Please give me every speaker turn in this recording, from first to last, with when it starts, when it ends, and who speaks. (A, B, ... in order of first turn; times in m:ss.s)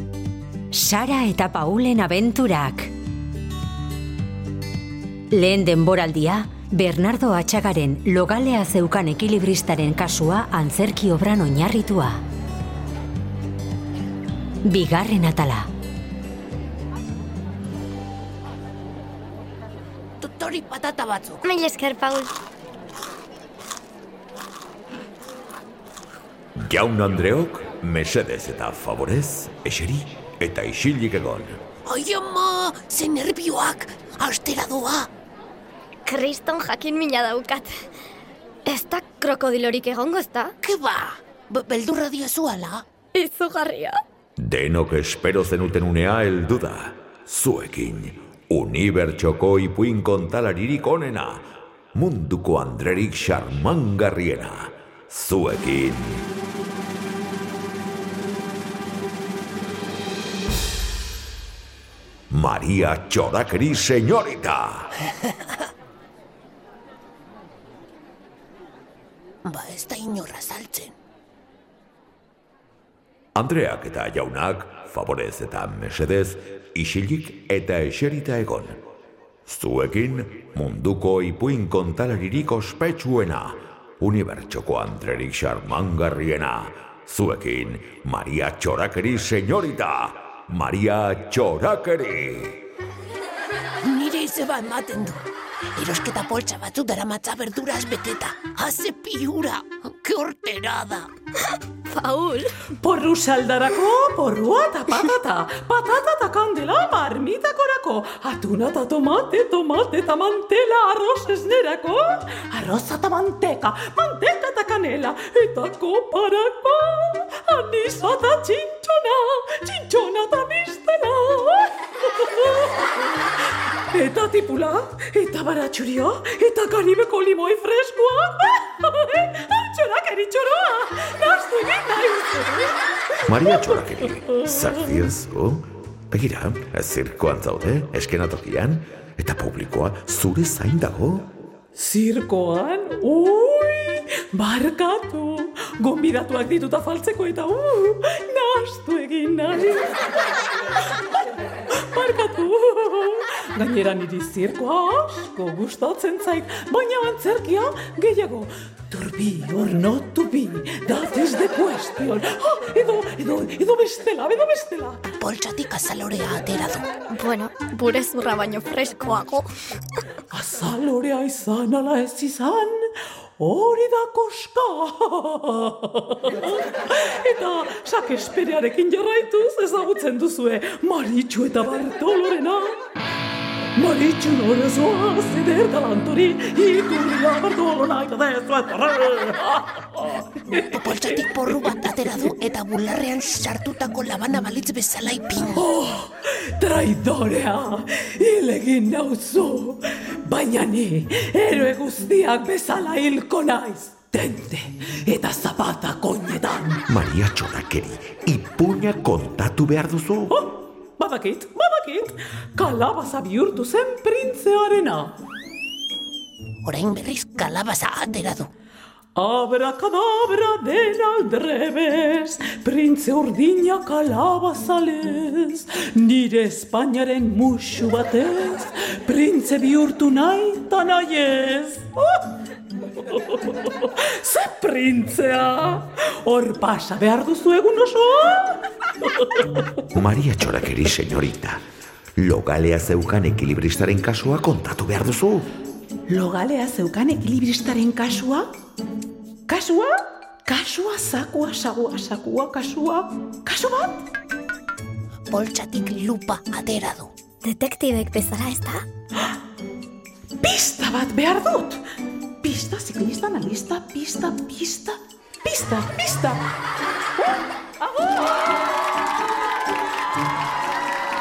0:00.7-0:02.9 A
0:05.3-0:12.2 A
0:14.6-0:15.7 A
0:20.2-0:21.5 B
0:21.4-0:22.3 C
0:26.6-0:31.6 D
0:31.9-0:35.1 B
0:36.1-0:37.8 C
0:38.7-0:40.5 C
0:40.6-0:42.8 B
0:43.1-0:44.0 C
0:44.4-0:56.3 D
1:02.3-1:04.9 D
1:09.4-1:11.0 B
1:13.4-1:18.8 D
1:19.5-1:32.6 D
1:33.8-1:35.2 B
1:35.8-1:41.1 B
1:41.9-1:42.6 C
1:42.8-2:03.3 E
2:03.9-2:13.8 E
2:13.2-2:21.3 D
2:21.8-2:30.0 E
2:31.7-2:45.0 E
2:45.2-2:46.9 B
2:47.1-2:49.5 C
2:50.3-3:02.8 E
3:03.8-3:11.4 E
3:10.7-3:15.7 B
3:15.5-3:26.9 E
3:26.9-3:30.3 D
3:30.3-3:35.2 E
3:36.6-3:38.5 B
3:39.2-3:52.2 E
3:53.1-3:59.4 E
3:59.9-4:01.6 D
4:02.2-4:05.5 D
4:06.1-4:08.5 E
4:09.5-4:14.0 E
4:15.3-4:17.1 B
4:17.4-4:18.8 C
4:20.4-4:21.8 E
4:22.4-4:26.4 E